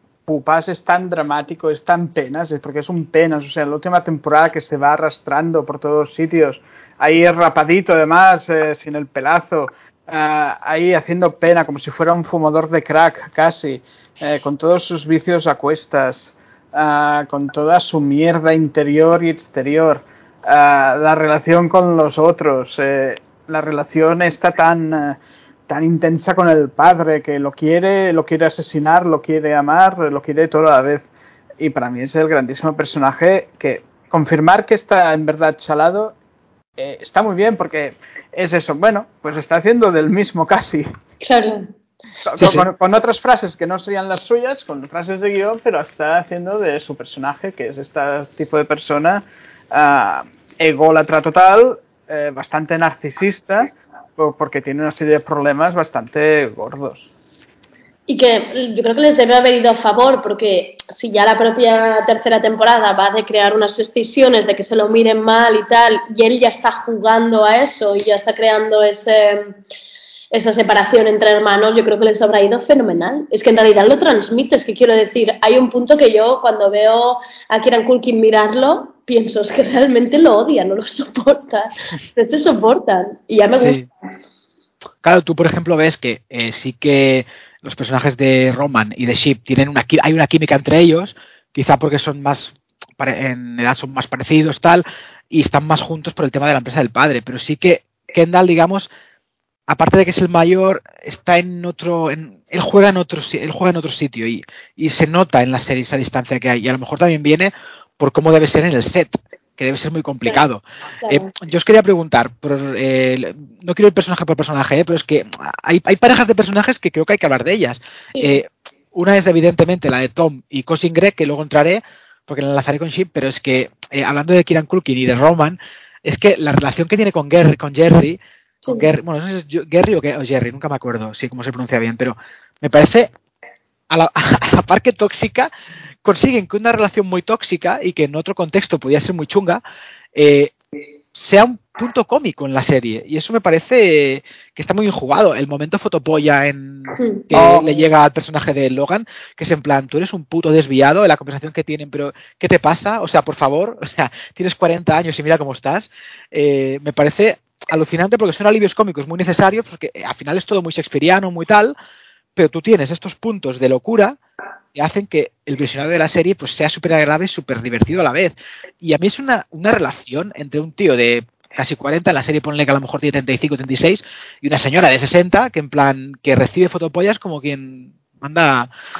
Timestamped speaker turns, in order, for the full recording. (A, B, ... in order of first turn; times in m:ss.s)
0:00.3-0:31.1 A
0:31.6-0:36.1 A
0:36.8-0:40.9 A
0:41.2-0:41.7 B
0:42.2-0:57.1 A
0:42.4-0:42.7 C
0:58.1-1:09.6 B
1:10.3-1:23.8 B
1:23.6-1:23.8 C
1:25.0-1:38.9 C
1:39.7-2:13.1 C
1:51.0-1:51.3 B
1:58.1-1:58.4 B
2:08.6-2:08.9 B
2:13.9-2:15.5 C
2:16.0-2:19.6 C
2:20.1-2:20.5 C
2:21.1-2:41.7 C
2:27.3-2:27.8 A
2:42.4-2:44.2 C
2:44.7-2:58.7 C